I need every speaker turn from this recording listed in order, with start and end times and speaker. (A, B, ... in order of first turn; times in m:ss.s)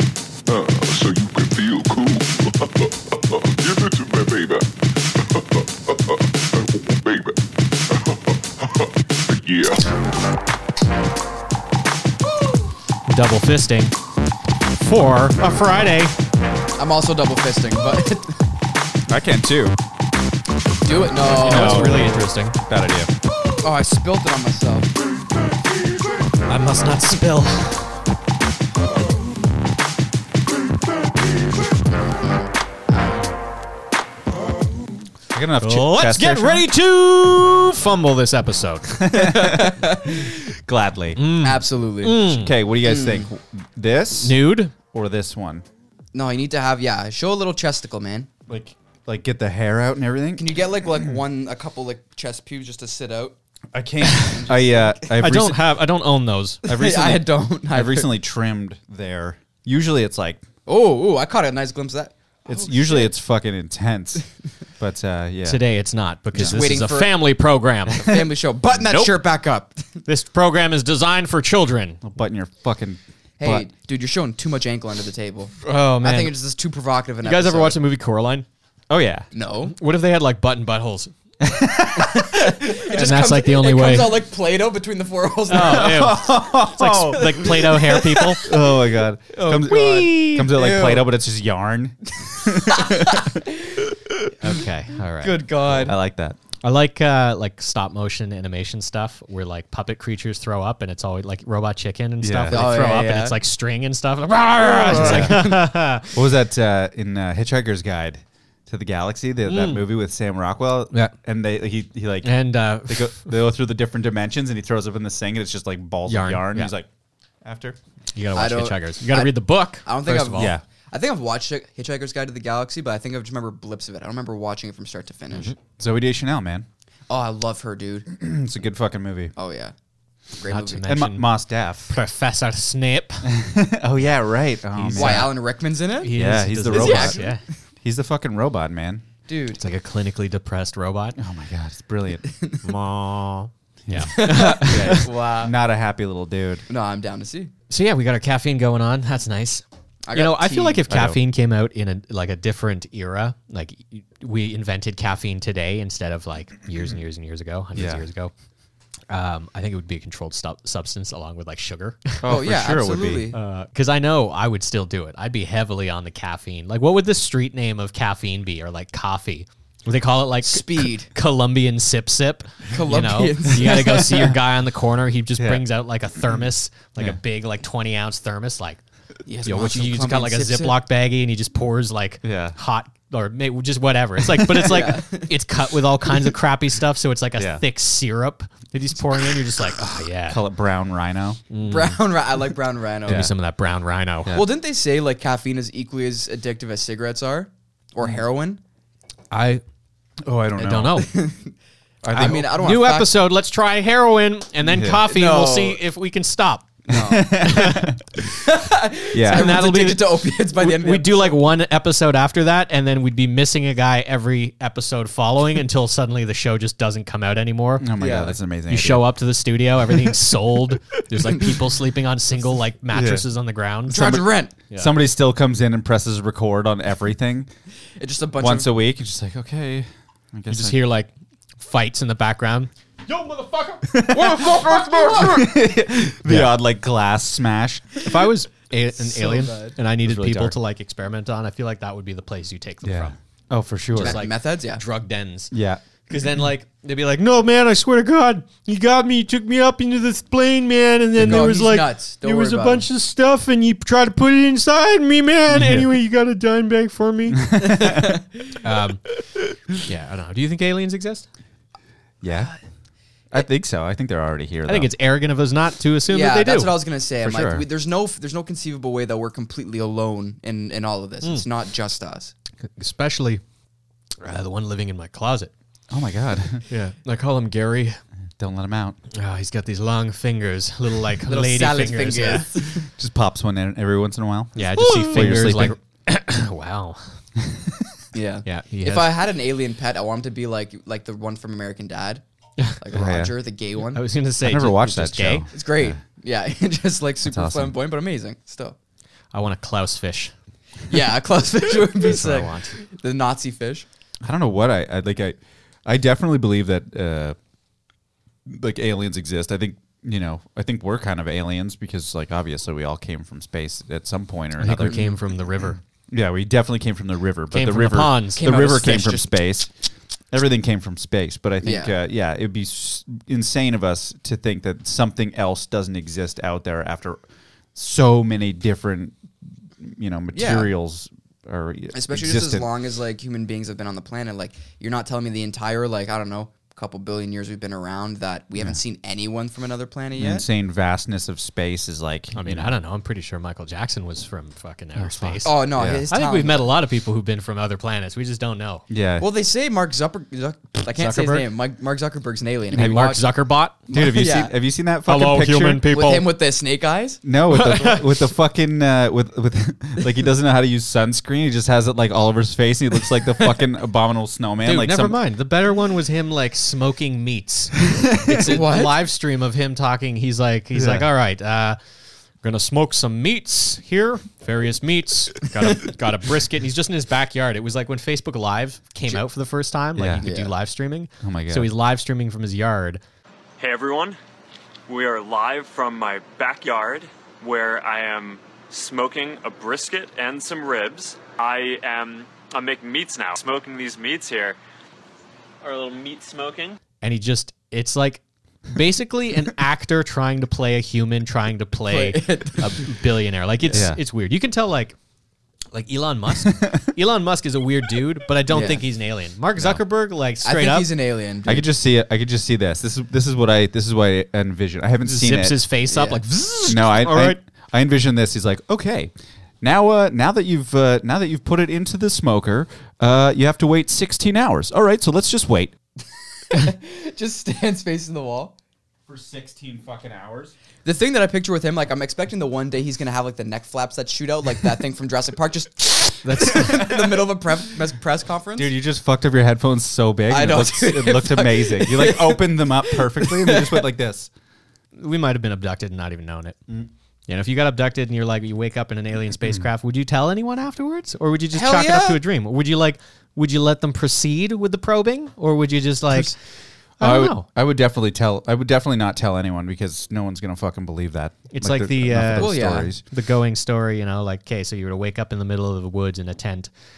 0:00.5-0:09.9 A
0:13.1-0:13.9 B
0:14.7-0:16.1 B
0:16.8-0:18.4 C
0:19.1-0:19.8 D
0:20.8-0:22.1 C
0:21.2-0:22.6 B
0:21.2-0:23.1 D
0:23.6-0:24.9 C
0:26.4-0:27.9 B
0:32.0-0:33.2 C
0:35.3-0:36.7 D
0:35.6-0:39.0 B
0:38.9-0:41.2 D
0:39.1-0:40.4 C
0:41.2-0:42.5 B
0:41.4-0:42.3 C
0:42.2-0:45.6 D
0:42.8-0:43.3 C
0:44.2-0:44.7 B
0:46.1-0:48.3 C
0:48.5-0:50.4 D
0:50.4-0:53.4 C
0:53.7-0:55.7 D
0:54.2-0:55.2 C
0:55.2-0:56.6 B
0:56.6-1:00.4 D
0:56.7-0:58.1 C
1:00.6-1:03.1 C
1:02.4-1:04.2 D
1:04.8-1:05.6 D
1:05.4-1:08.1 B
1:06.3-1:06.6 D
1:06.4-1:07.2 C
1:07.9-1:10.0 C
1:08.8-1:09.1 B
1:10.0-1:12.0 B
1:12.0-1:13.6 D
1:13.4-1:17.8 C
1:15.6-1:16.3 B
1:17.2-1:18.4 B
1:18.9-1:19.2 D
1:19.3-1:19.7 C
1:19.7-1:21.1 B
1:21.4-1:22.4 D
1:22.0-1:26.2 C
1:22.6-1:24.2 B
1:25.5-1:28.4 B
1:25.5-1:27.5 D
1:27.1-1:28.6 C
1:28.4-1:33.4 D
1:29.3-1:31.1 C
1:29.5-1:30.5 B
1:32.4-1:34.0 C
1:34.4-1:35.4 B
1:35.2-1:36.0 C
1:35.7-1:36.4 D
1:36.6-1:46.2 B
1:42.2-1:42.6 D
1:42.5-1:43.4 C
1:44.6-1:45.6 C
1:44.9-1:56.9 D
1:49.4-1:49.8 B
1:52.2-1:53.3 B
1:56.0-1:56.7 B
1:57.4-1:57.8 D
1:58.1-2:00.6 B
1:58.3-2:05.5 C
2:00.4-2:00.6 D
2:05.6-2:06.7 D
2:07.1-2:08.1 C
2:08.1-2:09.3 D
2:09.4-2:09.7 C
2:10.3-2:10.8 C
2:10.5-2:11.3 B
2:10.8-2:11.9 D
2:11.9-2:13.3 B
2:13.2-2:15.3 D
2:14.7-2:15.3 B
2:14.9-2:16.1 C
2:16.0-2:17.4 B
2:16.1-2:17.2 D
2:16.7-2:17.4 C
2:17.8-2:19.0 D
2:19.3-2:19.6 C
2:19.5-2:21.2 B
2:21.2-2:22.2 D
2:22.3-2:22.6 C
2:22.6-2:25.1 B
2:23.8-2:26.6 D
2:24.1-2:25.5 C
2:26.7-2:27.5 C
2:27.7-2:38.3 B
2:30.0-2:30.8 C
2:30.9-2:31.2 D
2:37.7-2:38.0 D
2:39.1-2:42.2 B
2:42.2-2:43.3 D
2:42.2-2:43.4 C
2:43.3-2:58.8 B
2:50.4-2:51.1 C
2:52.7-2:54.3 C
2:53.8-2:54.3 D
2:55.4-2:55.6 D
2:56.2-2:57.2 D
2:59.2-3:00.8 C
2:59.4-3:10.4 B
3:02.2-3:02.6 D
3:04.6-3:05.3 C
3:07.4-3:07.6 D
3:10.3-3:11.4 D
3:11.5-3:12.0 B
3:11.6-3:13.3 C
3:13.0-3:13.3 D
3:13.0-3:14.4 B
3:14.3-3:18.6 C
3:19.3-3:19.6 B
3:20.2-3:21.0 D
3:20.6-3:21.1 B
3:21.0-3:21.5 C
3:22.0-3:22.5 D
3:22.1-3:23.1 C
3:22.1-3:26.7 B
3:24.6-3:25.0 D
3:25.1-3:25.8 C
3:26.9-3:27.5 C
3:26.9-3:28.0 D
3:27.4-3:27.9 B
3:28.4-3:31.4 C
3:29.1-3:29.6 D
3:29.3-3:37.9 B
3:37.8-3:39.1 D
3:38.0-3:38.4 C
3:38.7-3:44.9 B
3:41.1-3:41.5 C
3:42.9-3:43.2 D
3:43.9-3:44.6 C
3:44.8-3:47.5 D
3:48.0-3:48.8 C
3:48.4-3:50.8 D
3:50.5-3:53.9 B
3:53.9-3:58.1 D
3:54.1-3:55.5 C
3:56.2-3:56.5 B
3:58.0-4:03.1 B
3:59.0-3:59.8 C
4:00.0-4:00.6 D
4:02.8-4:04.2 D
4:03.9-4:05.5 B
4:04.0-4:04.8 C
4:05.5-4:05.8 D
4:06.1-4:17.5 B
4:11.2-4:12.8 C
4:15.5-4:15.9 D
4:17.3-4:18.2 D
4:17.6-4:18.2 C
4:18.6-4:19.0 B
4:19.8-4:21.2 B
4:22.2-4:22.5 D
4:23.3-4:24.9 D
4:24.6-4:26.8 B
4:26.1-4:32.3 C
4:27.2-4:27.6 D
4:32.6-4:33.4 B
4:34.2-4:35.5 B
4:35.9-4:36.6 D
4:36.7-4:38.0 B
4:38.4-4:39.0 D
4:39.1-4:42.5 B
4:41.2-4:42.9 C
4:42.8-4:45.8 D
4:44.6-4:47.0 B
4:44.9-4:45.2 C
4:47.4-4:47.8 D
4:48.1-4:52.2 C
4:48.4-4:49.1 B
4:52.8-4:54.0 C
4:52.9-4:53.3 D
4:53.9-4:55.5 B
4:54.4-4:56.0 D
4:55.5-4:58.8 C
4:57.2-4:57.8 D
4:59.3-5:00.3 B
5:00.9-5:03.8 C
5:02.0-5:02.7 B
5:04.2-5:07.4 D
5:08.4-5:15.0 D
5:14.6-5:15.8 B
5:14.8-5:15.2 C
5:16.1-5:19.7 D
5:17.5-5:18.4 B
5:18.4-5:19.4 C
5:20.3-5:27.2 D
5:21.6-5:21.9 C
5:27.7-5:32.7 D
5:30.3-5:30.7 C
5:31.9-5:40.4 C
5:40.2-5:42.7 D
5:42.3-5:48.8 B
5:45.0-5:46.0 D
5:45.4-5:46.7 C
5:48.9-5:49.3 D
5:49.2-5:53.2 C
5:50.9-5:51.4 B
5:52.7-5:53.8 B
5:53.9-5:54.5 C
5:53.9-5:55.8 D
5:55.0-5:56.3 B
5:55.9-5:57.2 C
5:57.2-6:05.2 D
5:57.5-5:58.0 B
6:04.6-6:11.8 B
6:07.9-6:08.3 D
6:08.4-6:09.0 C
6:10.7-6:11.1 D
6:12.4-6:23.0 B
6:20.0-6:20.2 D
6:20.2-6:20.5 C
6:21.2-6:21.7 D
6:23.6-6:24.2 E
6:24.9-6:34.6 E
6:35.6-6:36.8 E
6:37.0-6:45.0 B
6:41.8-6:42.9 C
6:43.7-6:44.0 D
6:45.7-6:50.9 B
6:46.4-6:46.8 D
6:48.5-6:48.8 C
6:50.4-6:51.7 C
6:51.4-6:55.6 D
6:55.0-6:57.4 B
6:55.9-6:56.2 C
6:56.7-7:05.7 D
7:06.5-7:08.5 C
7:09.1-7:10.5 D
7:10.8-7:18.7 C
7:16.2-7:16.9 B
7:18.6-7:24.3 D
7:20.3-7:23.9 C
7:25.0-7:26.6 B
7:27.3-7:36.3 B
7:31.5-7:32.2 C
7:37.0-7:37.4 B
7:37.0-7:43.0 D
7:41.5-7:46.7 B
7:42.4-7:42.9 C